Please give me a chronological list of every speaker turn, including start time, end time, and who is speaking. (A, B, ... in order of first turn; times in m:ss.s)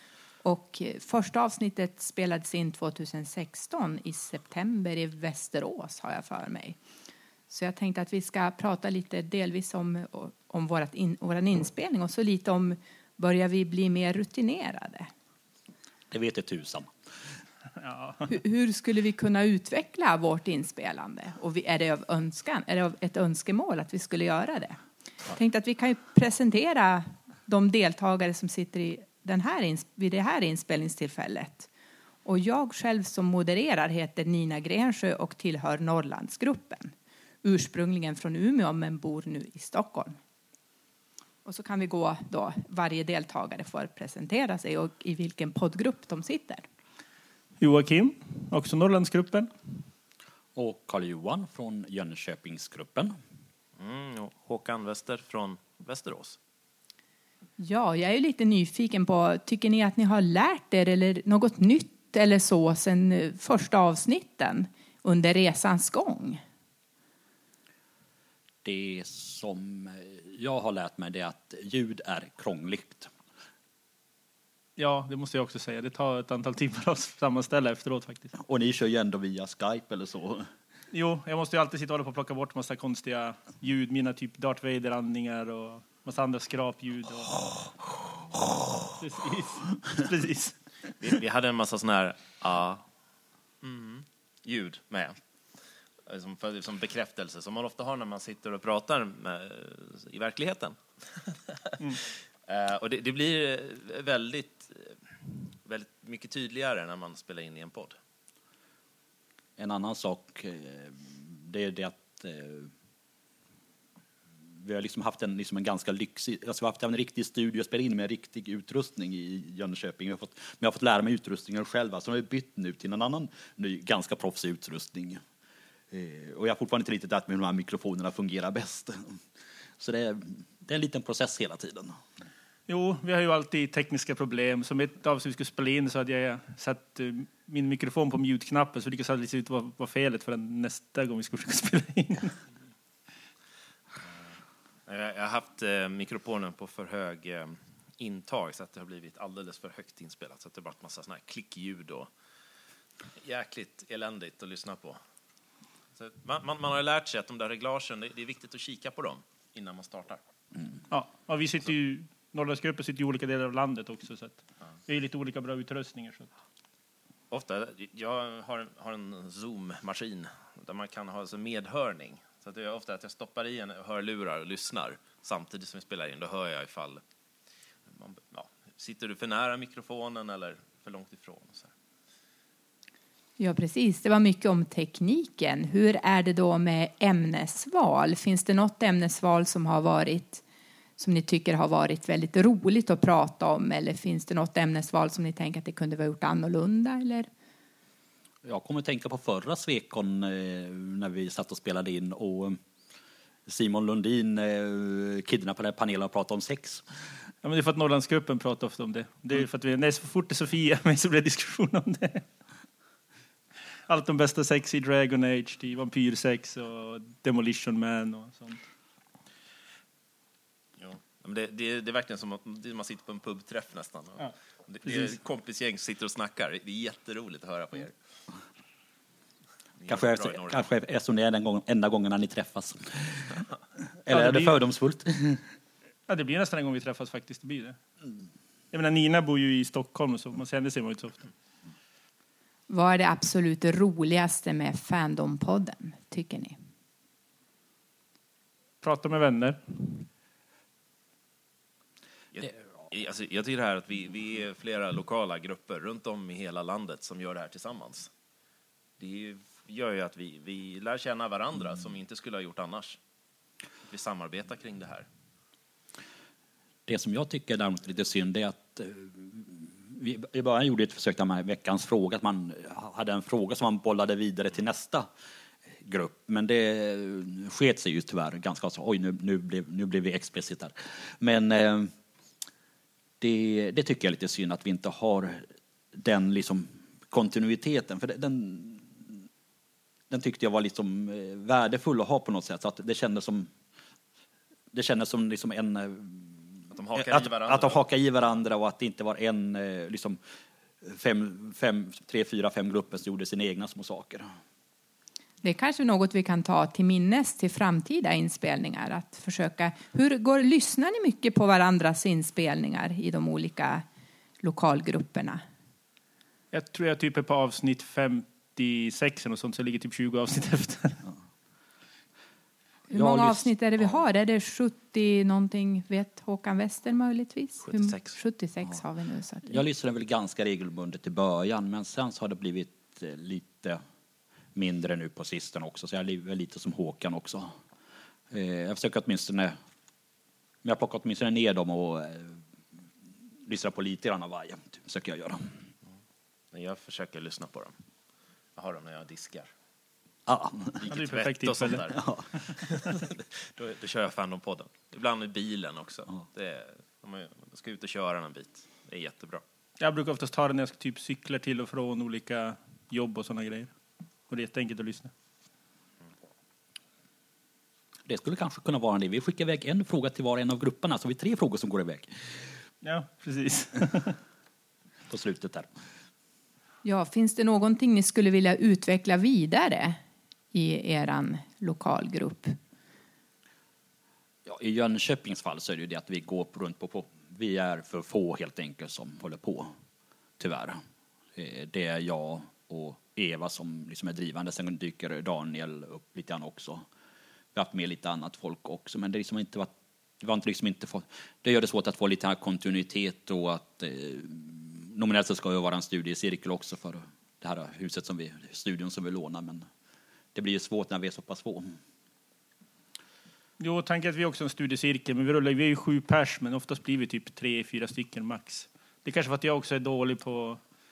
0:00.4-0:06.8 A
0:07.5-0:15.1 A
0:16.1-0:16.9 B
0:17.8-0:18.3 C
0:18.2-0:31.7 A
0:32.2-0:40.2 A
0:41.4-0:46.6 A
0:47.6-0:49.5 C
0:50.6-0:53.1 B
0:53.8-0:56.4 D
0:57.6-1:06.4 A
1:08.6-1:13.1 B
1:14.8-1:18.3 C
1:18.4-1:20.5 B
1:20.9-1:27.6 C
1:29.0-1:30.6 C
1:31.0-1:32.8 D
1:33.6-1:35.2 D
1:36.0-1:48.0 D
1:49.6-1:52.7 B
1:54.6-2:05.2 B
2:05.9-2:09.2 B
2:09.8-2:12.0 B
2:12.7-2:22.4 C
2:24.9-2:32.1 D
2:33.2-2:35.0 D
2:36.0-2:40.2 D
2:40.9-2:46.3 C
2:47.3-2:57.0 D
2:57.9-3:01.7 D
3:03.4-3:10.4 A
3:11.0-3:17.3 A
3:18.4-3:22.6 B
3:23.5-3:26.8 B
3:27.4-3:32.2 C
3:33.9-3:38.6 C
3:40.8-3:47.9 D
3:44.8-3:45.2 C
3:49.8-3:50.6 D
3:49.9-3:53.4 B
3:54.0-3:55.4 B
3:54.1-3:54.5 C
3:56.1-3:57.8 C
3:58.7-4:01.2 C
4:02.7-4:06.6 A
4:08.8-4:10.1 C
4:12.3-4:18.1 D
4:19.0-4:23.0 D
4:23.9-4:25.1 D
4:26.9-4:35.1 B
4:35.8-4:41.9 B
4:43.2-4:49.2 B
4:50.1-4:53.5 B
4:54.7-5:00.2 B
4:56.7-4:57.8 D
5:00.8-5:04.3 B
5:05.4-5:13.8 A
5:14.4-5:15.4 A
5:16.5-5:21.0 C
5:22.9-5:29.6 A
5:22.9-5:24.0 B
5:27.6-5:28.2 D
5:29.5-5:33.8 B
5:34.5-5:37.5 B
5:38.3-5:39.6 B
5:40.6-5:42.4 B
5:43.4-5:45.5 B
5:46.5-5:47.7 D
5:48.6-5:49.5 D
5:50.3-5:50.8 B
5:50.8-5:59.4 D
5:50.9-5:52.5 C
5:52.0-5:52.2 B
5:59.8-6:03.7 C
6:04.3-6:05.1 C
6:08.0-6:12.1 B
6:12.8-6:14.2 C
6:15.1-6:15.7 B
6:16.8-6:20.0 A
6:20.5-6:22.6 A
6:24.4-6:29.7 B
6:30.4-6:30.8 B
6:31.3-6:36.8 B
6:37.5-6:49.7 B
6:50.3-6:51.8 B
6:53.6-7:00.6 C